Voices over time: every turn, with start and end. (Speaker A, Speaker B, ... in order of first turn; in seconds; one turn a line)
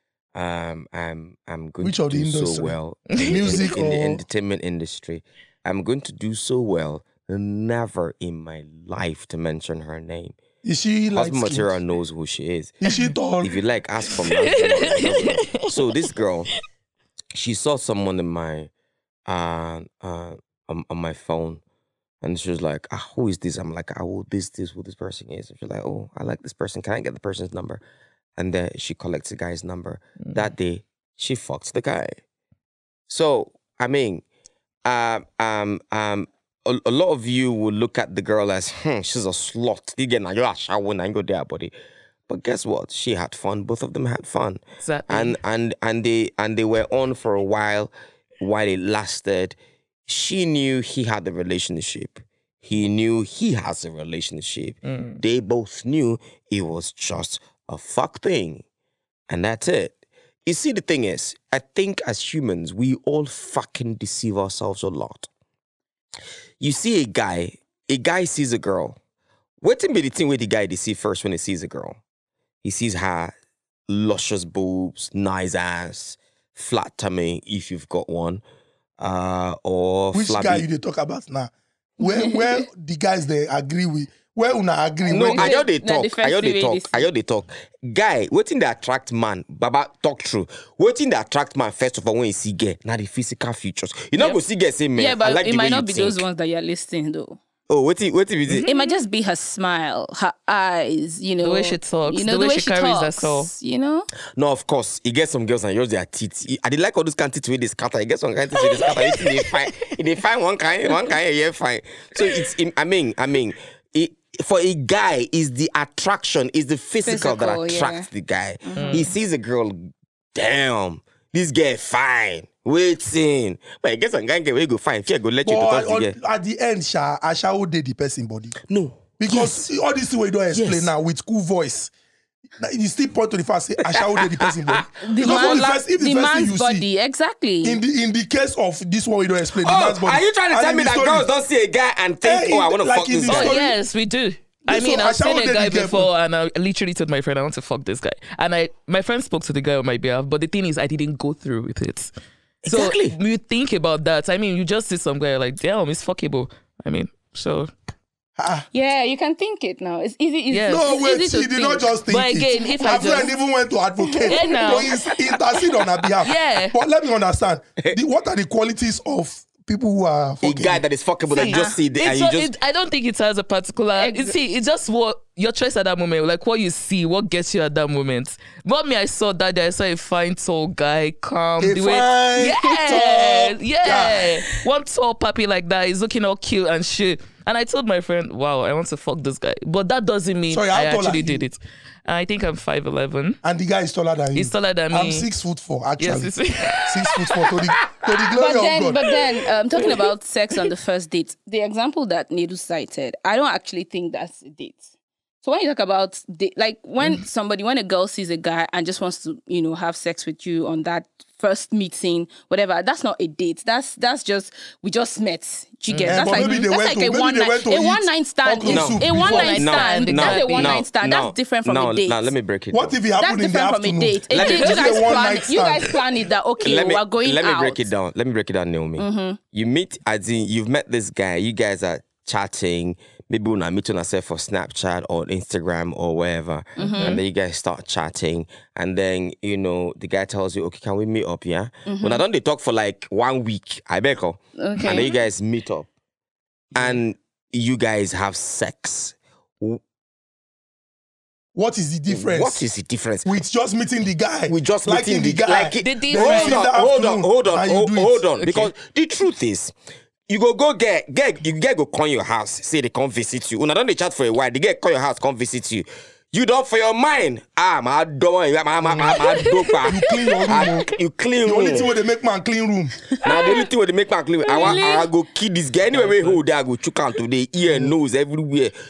Speaker A: 0.3-10.4
Speaker B: 1.8-4.2
Speaker C: 3.1-3.7
Speaker B: 10.6-11.8
Speaker A: 11.1-12.8
Speaker B: 12.8-13.6
Speaker A: 13.4-16.5
Speaker C: 14.2-15.8
Speaker A: 17.3-18.7
Speaker A: 19.3-21.6
Speaker A: 22.2-27.8
Speaker A: 28.4-32.1
Speaker A: 33.1-34.2
Speaker A: 34.9-41.7
Speaker A: 42.3-49.6
Speaker C: 44.8-45.4
Speaker A: 50.1-58.6
Speaker C: 54.9-55.2
Speaker A: 59.3-60.0
Speaker A: 60.5-65.3
Speaker A: 66.6-69.0
Speaker A: 69.6-72.0
Speaker A: 72.6-73.3
Speaker A: 73.9-78.4
Speaker A: 79.0-80.7
Speaker B: 80.1-85.6
Speaker D: 82.0-82.4
Speaker D: 85.1-87.1
Speaker A: 85.1-96.2
Speaker D: 95.0-97.4
Speaker A: 97.7-98.7
Speaker C: 98.5-98.9
Speaker D: 98.7-104.1
Speaker C: 101.4-103.5
Speaker A: 104.4-126.2
Speaker C: 108.6-109.7
Speaker D: 117.0-118.1
Speaker D: 118.6-119.1
Speaker C: 118.8-119.1
Speaker B: 125.4-128.6
Speaker A: 128.7-129.6
Speaker B: 129.2-131.9
Speaker A: 130.5-130.9
Speaker B: 132.6-136.9
Speaker A: 133.9-135.7
Speaker D: 135.0-137.8
Speaker B: 137.6-141.3
Speaker A: 139.6-143.6
Speaker B: 142.2-143.8
Speaker C: 143.3-152.1
Speaker B: 144.7-146.1
Speaker A: 152.6-153.2
Speaker C: 152.7-157.7
Speaker B: 158.4-158.7
Speaker D: 158.7-162.0
Speaker C: 160.5-160.9
Speaker B: 160.7-170.8
Speaker C: 162.1-163.3
Speaker D: 162.5-163.1
Speaker C: 164.3-165.1
Speaker C: 166.1-166.8
Speaker A: 170.4-172.5
Speaker C: 171.3-193.4
Speaker D: 171.3-171.8
Speaker D: 174.0-174.3
Speaker B: 181.6-184.3
Speaker B: 190.5-191.5
Speaker B: 193.4-199.0
Speaker C: 194.3-195.3
Speaker C: 196.0-197.4
Speaker D: 198.4-204.9
Speaker D: 205.4-222.3
Speaker C: 215.9-216.6
Speaker B: 216.1-219.6
Speaker A: 218.7-223.0
Speaker C: 219.1-220.9
Speaker B: 222.7-225.9
Speaker D: 223.2-227.9
Speaker A: 224.3-225.1
Speaker A: 226.6-245.9
Speaker D: 229.0-229.4
Speaker D: 236.8-237.2
Speaker C: 236.8-237.2
Speaker D: 241.9-242.2
Speaker D: 244.6-245.2
Speaker A: 246.8-249.8
Speaker B: 251.6-252.7
Speaker A: 252.1-253.4
Speaker B: 253.2-258.2
Speaker A: 254.5-259.8
Speaker C: 255.8-256.7
Speaker C: 258.4-258.7
Speaker A: 260.3-271.9
Speaker C: 268.9-269.9
Speaker B: 269.9-270.9
Speaker C: 270.5-270.8
Speaker B: 271.4-273.0
Speaker C: 273.2-273.6
Speaker A: 273.2-278.7
Speaker D: 274.4-275.1
Speaker C: 275.9-276.4